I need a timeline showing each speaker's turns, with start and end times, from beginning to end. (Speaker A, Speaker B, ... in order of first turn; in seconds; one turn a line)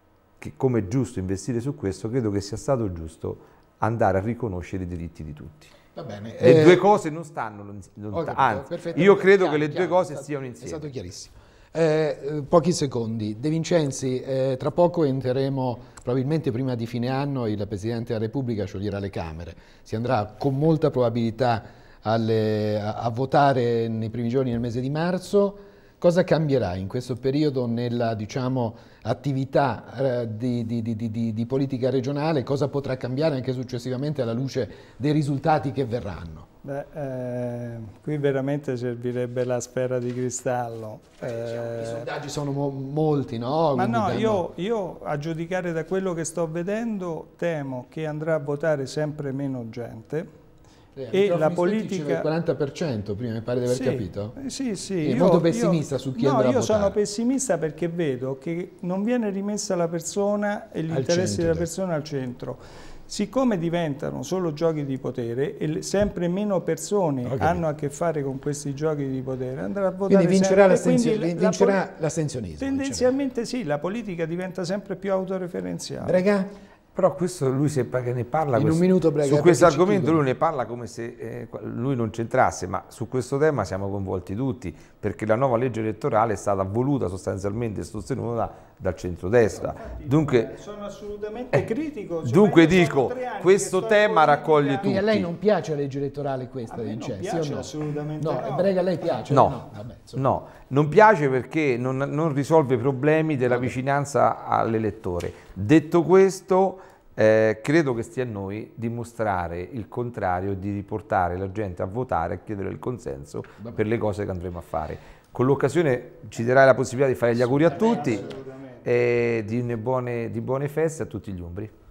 Speaker A: 0.4-5.7
Speaker B: 5.9-6.8
Speaker A: 6.4-10.8
Speaker B: 8.1-36.5
Speaker C: 36.6-42.1
Speaker B: 41.2-44.4
Speaker C: 43.7-50.3
Speaker B: 50.9-54.4
Speaker C: 51.1-52.3
Speaker C: 53.6-71.8
Speaker B: 55.0-57.0
Speaker B: 60.9-61.7
Speaker B: 67.2-67.6
Speaker B: 70.1-73.1
Speaker C: 72.6-76.2
Speaker B: 76.0-76.5
Speaker A: 76.9-90.5
Speaker B: 78.5-80.2
Speaker C: 89.4-95.0
Speaker A: 92.2-95.3
Speaker B: 94.8-100.2
Speaker C: 96.7-98.7
Speaker A: 99.3-99.6
Speaker A: 100.1-118.2
Speaker C: 117.6-118.8
Speaker A: 118.8-121.7